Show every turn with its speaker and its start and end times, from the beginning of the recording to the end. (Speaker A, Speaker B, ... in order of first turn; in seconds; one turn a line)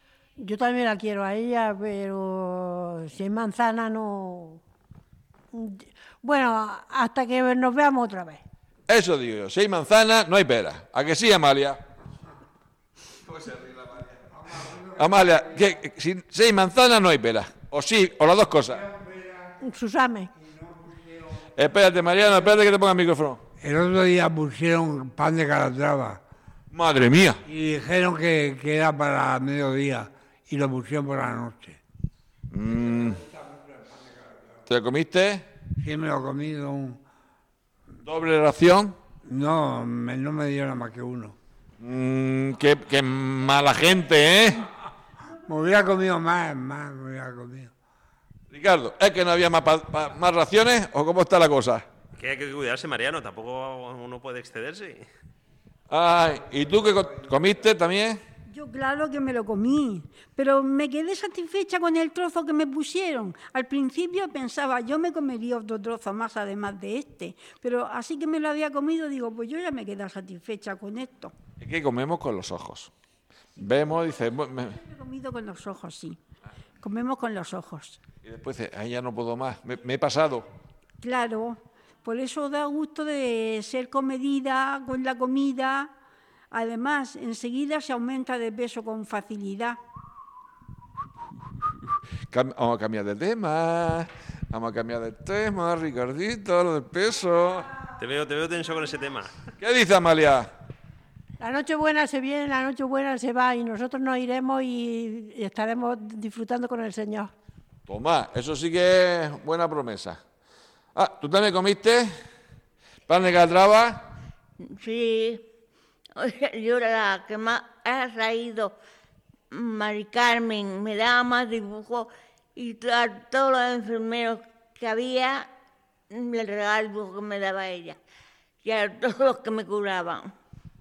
Speaker A: 0.4-4.6
Speaker A: 5.5-8.4
Speaker B: 8.9-11.8
Speaker B: 13.3-14.2
Speaker C: 14.3-15.7
Speaker B: 14.9-18.8
Speaker C: 18.7-19.6
Speaker A: 19.6-20.3
Speaker C: 20.3-21.5
Speaker B: 21.5-23.4
Speaker C: 23.6-26.2
Speaker B: 26.7-27.4
Speaker C: 27.4-31.8
Speaker B: 32.5-33.2
Speaker C: 32.7-34.6
Speaker B: 34.7-35.4
Speaker C: 35.8-37.0
Speaker B: 38.0-39.0
Speaker C: 39.2-41.4
Speaker B: 41.8-44.7
Speaker C: 45.4-47.7
Speaker B: 48.5-51.8
Speaker D: 52.1-55.0
Speaker B: 55.9-58.2
Speaker E: 58.5-71.3
Speaker B: 71.6-72.9
Speaker B: 73.6-74.8
Speaker E: 73.7-76.2
Speaker E: 76.8-78.0
Speaker B: 78.2-80.5
Speaker E: 81.0-85.9
Speaker E: 86.5-89.8
Speaker B: 92.3-97.7
Speaker D: 98.0-99.3
Speaker B: 99.6-100.5
Speaker A: 101.4-107.3
Speaker B: 107.9-110.2
Speaker B: 110.9-112.1
Speaker B: 113.1-114.1
Speaker F: 114.6-115.4
Speaker F: 116.2-118.8
Speaker F: 119.5-125.5
Speaker F: 126.1-128.0
Speaker F: 128.6-130.2